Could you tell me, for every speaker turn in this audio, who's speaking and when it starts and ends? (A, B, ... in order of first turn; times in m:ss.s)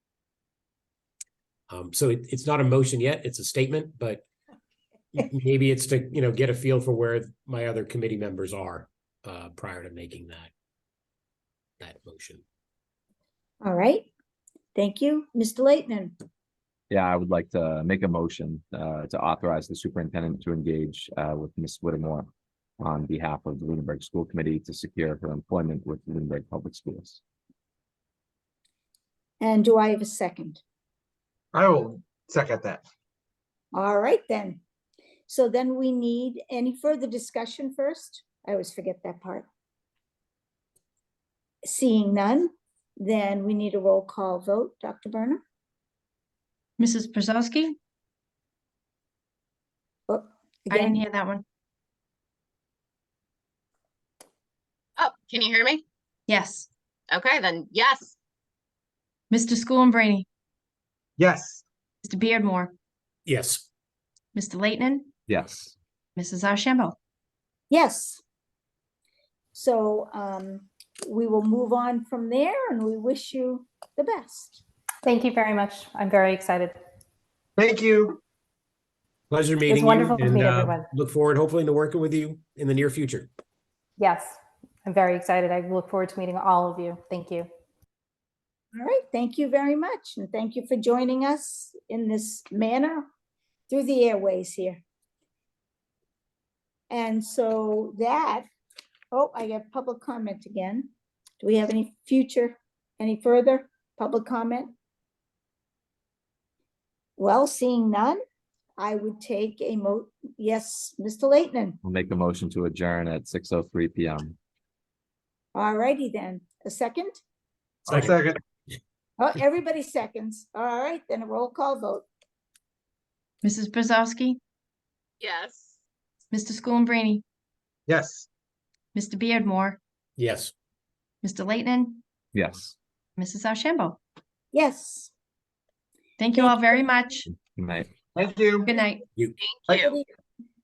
0:01.7-0:04.2 A
0:05.1-0:10.5 A
0:11.8-0:12.4 A
0:13.6-0:14.1 B
0:14.8-0:16.2 B
0:16.9-0:22.3 C
0:22.8-0:27.2 C
0:29.4-0:30.6 B
0:31.5-0:32.8 D
0:33.7-0:34.6 B
0:35.3-0:39.5 B
0:41.6-0:45.4 B
0:46.8-0:47.8 E
0:50.1-0:51.0 B
0:50.7-0:51.4 E
0:55.0-0:55.8 F
0:56.3-0:56.7 E
0:57.1-0:58.2 F
0:59.3-1:00.2 E
1:01.2-1:01.6 D
1:02.0-1:02.7 E
1:03.3-1:03.7 A
1:04.3-1:05.1 E
1:05.3-1:05.8 C
1:06.2-1:07.0 E
1:07.7-1:08.2 B
1:09.6-1:14.6 B
1:15.0-1:16.8 G
1:17.6-1:18.2 D
1:19.3-1:23.3 A
1:19.7-1:20.9 G
1:24.0-1:27.5 G
1:28.8-1:33.0 B
1:33.7-1:34.8 B
1:36.9-1:38.5 B
1:39.1-1:40.9 B
1:41.4-1:44.7 B
1:47.2-1:48.2 B
1:48.8-1:51.8 B
1:51.8-1:54.4 C
1:55.6-1:57.2 B
1:57.9-1:58.4 D
1:59.2-2:02.1 B
2:03.4-2:04.4 E
2:05.2-2:05.7 F
2:06.3-2:07.2 E
2:07.9-2:08.3 D
2:08.9-2:09.8 E
2:10.2-2:10.5 A
2:11.2-2:12.0 E
2:12.3-2:12.8 C
2:13.2-2:14.0 E
2:14.5-2:15.1 B
2:16.2-2:17.3 E
2:16.4-2:16.8 B
2:17.3-2:17.9 C
2:18.2-2:18.7 D
2:18.6-2:19.0 E
2:19.4-2:19.9 F
2:19.7-2:20.0 B